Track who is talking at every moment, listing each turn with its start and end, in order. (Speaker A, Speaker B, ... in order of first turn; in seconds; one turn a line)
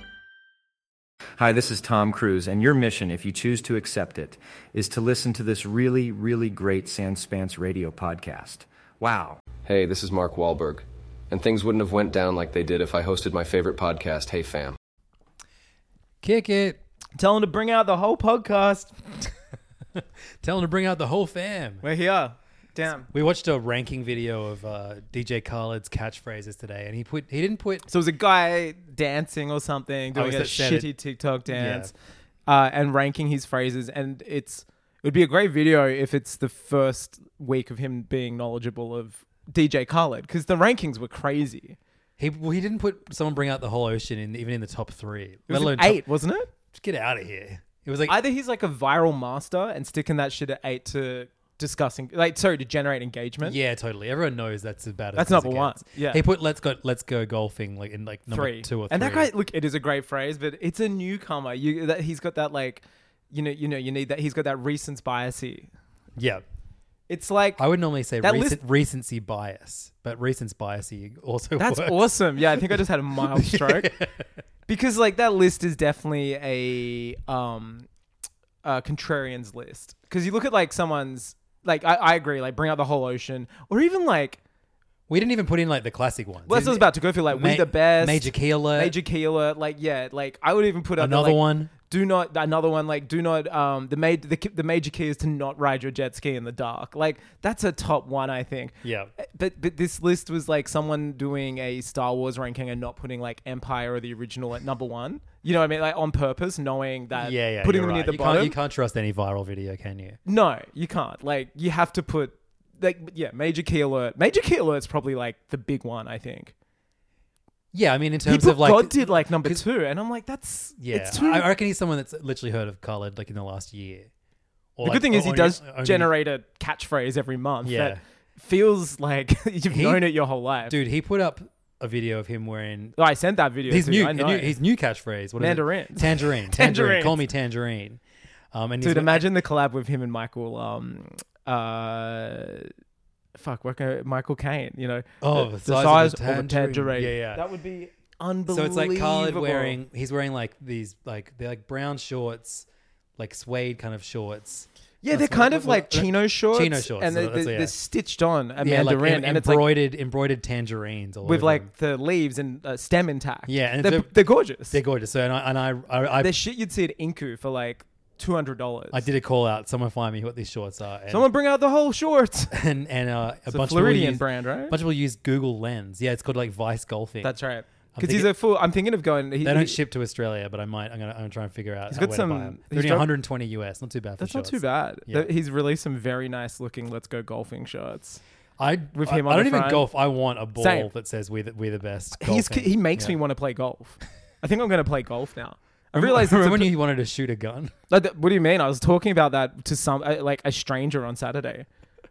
Speaker A: 1.4-9.4
Speaker B: 9.7-14.8
Speaker C: 16.2-16.8
Speaker D: 17.2-19.0
Speaker C: 20.4-21.9
Speaker D: 21.8-23.1
Speaker C: 23.1-27.9
Speaker D: 27.9-31.9
Speaker C: 30.1-30.9
Speaker C: 31.5-31.9
Speaker D: 32.5-41.8
Speaker C: 42.2-46.0
Speaker D: 45.5-46.5
Speaker C: 46.7-48.2
Speaker D: 48.1-53.6
Speaker C: 53.4-59.3
Speaker D: 55.1-56.2
Speaker D: 58.3-65.7
Speaker C: 66.2-66.5
Speaker D: 67.1-67.6
Speaker C: 67.6-74.3
Speaker D: 68.2-68.6
Speaker D: 71.6-74.0
Speaker D: 74.7-77.9
Speaker D: 78.6-84.4
Speaker C: 85.1-89.0
Speaker D: 86.5-108.6
Speaker C: 91.0-91.7
Speaker C: 98.8-99.1
Speaker C: 107.2-110.2
Speaker D: 110.3-116.5
Speaker C: 117.7-119.7
Speaker D: 118.2-121.5
Speaker C: 120.8-124.1
Speaker C: 124.8-126.1
Speaker D: 124.8-130.8
Speaker C: 127.6-128.0
Speaker C: 129.7-130.1
Speaker C: 130.7-133.0
Speaker D: 133.0-134.6
Speaker C: 133.7-138.0
Speaker D: 135.4-137.2
Speaker C: 138.5-139.3
Speaker D: 138.8-142.7
Speaker D: 143.3-149.8
Speaker C: 145.2-147.4
Speaker C: 148.5-157.7
Speaker D: 155.0-159.7
Speaker C: 158.6-161.7
Speaker D: 161.2-164.8
Speaker C: 163.5-166.4
Speaker D: 166.2-169.1
Speaker C: 168.9-171.3
Speaker D: 171.1-172.6
Speaker C: 172.5-177.3
Speaker D: 173.5-174.8
Speaker D: 177.2-179.8
Speaker C: 177.9-178.3
Speaker C: 179.4-185.3
Speaker D: 181.9-183.1
Speaker D: 184.2-188.2
Speaker C: 188.6-193.2
Speaker D: 188.9-189.9
Speaker D: 190.6-190.9
Speaker D: 192.2-196.8
Speaker C: 195.9-197.7
Speaker D: 197.9-201.7